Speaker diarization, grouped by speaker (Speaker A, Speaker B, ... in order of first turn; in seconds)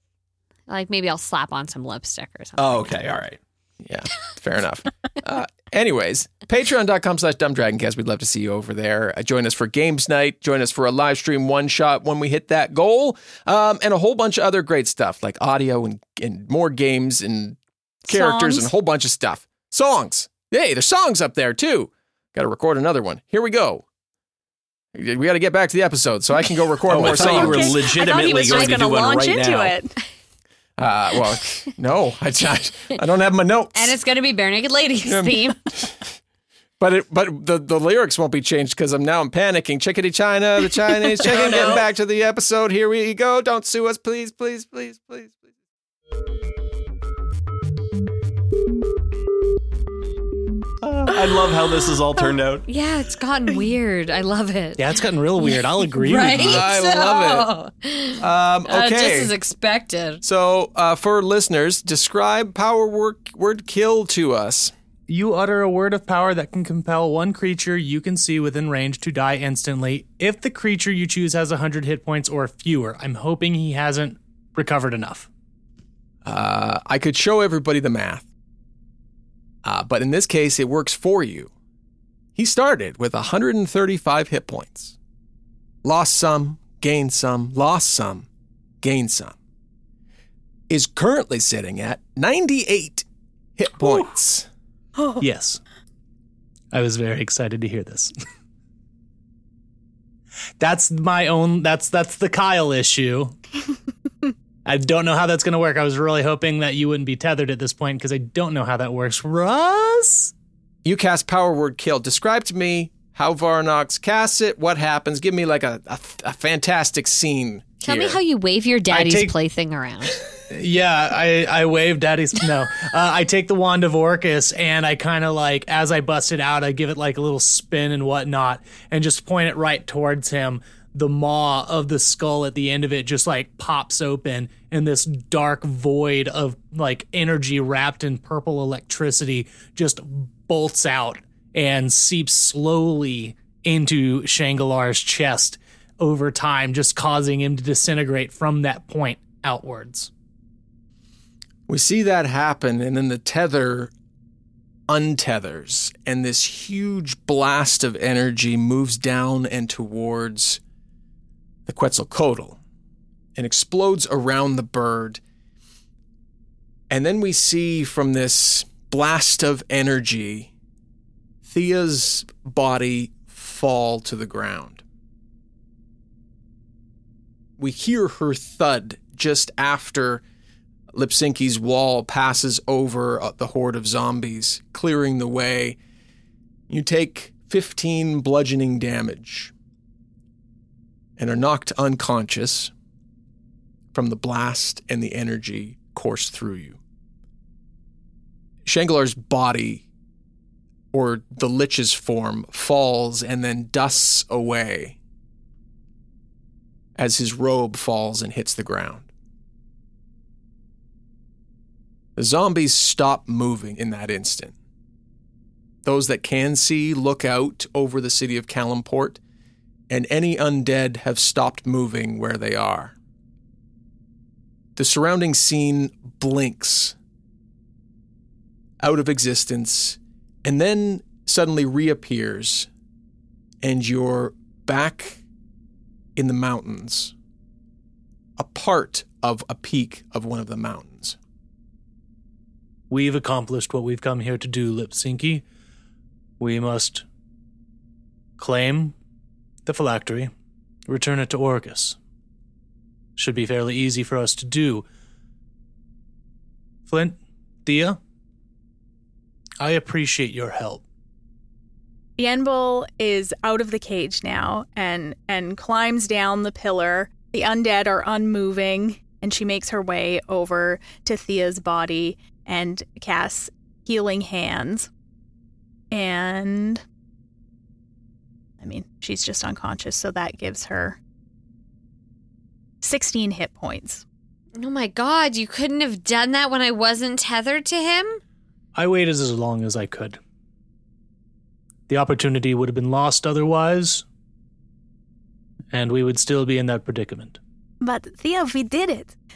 Speaker A: 0.7-2.9, 28.4-28.8, 33.7-35.6, 52.7-60.2, 117.8-120.2, 284.6-288.2
Speaker B: 2.6-3.4, 26.9-29.7, 51.0-52.6
Speaker C: 3.8-23.8, 24.9-27.8, 30.8-34.0, 35.0-35.9, 36.8-45.4, 50.8-51.1, 56.3-57.5, 58.2-59.3, 60.2-64.7, 76.2-78.3, 79.6-81.5, 82.3-84.9, 85.8-88.3, 88.8-89.3, 90.7-93.0, 93.6-94.5, 110.8-118.2, 151.7-153.9, 154.9-160.6, 161.7-162.6, 163.3-165.2, 166.9-170.5, 171.4-174.8, 177.6-180.2, 180.9-185.8, 186.7-189.5, 191.2-192.7, 193.9-196.8, 198.6-199.8, 200.9-205.0, 206.9-209.1, 212.2-214.5, 215.8-219.2, 219.9-222.9, 224.8-226.9, 228.8-232.7, 233.6-235.2, 236.2-237.1, 238.4-241.2
Speaker D: 18.1-18.7, 27.0-29.9, 41.3-41.8, 262.2-274.9, 275.9-276.8, 278.6-281.0, 282.8-284.0, 297.8-299.1
Speaker E: 54.8-56.7, 65.1-75.3, 95.2-95.6, 96.7-98.1, 100.6-103.3, 104.7-110.3, 118.9-119.3, 120.5-150.1, 242.9-245.4, 246.4-247.0, 248.4-248.9, 249.7-250.3, 250.9-252.0, 253.2-254.8, 256.9-258.0, 259.6-260.8, 288.7-290.2, 291.9-294.0, 295.7-297.4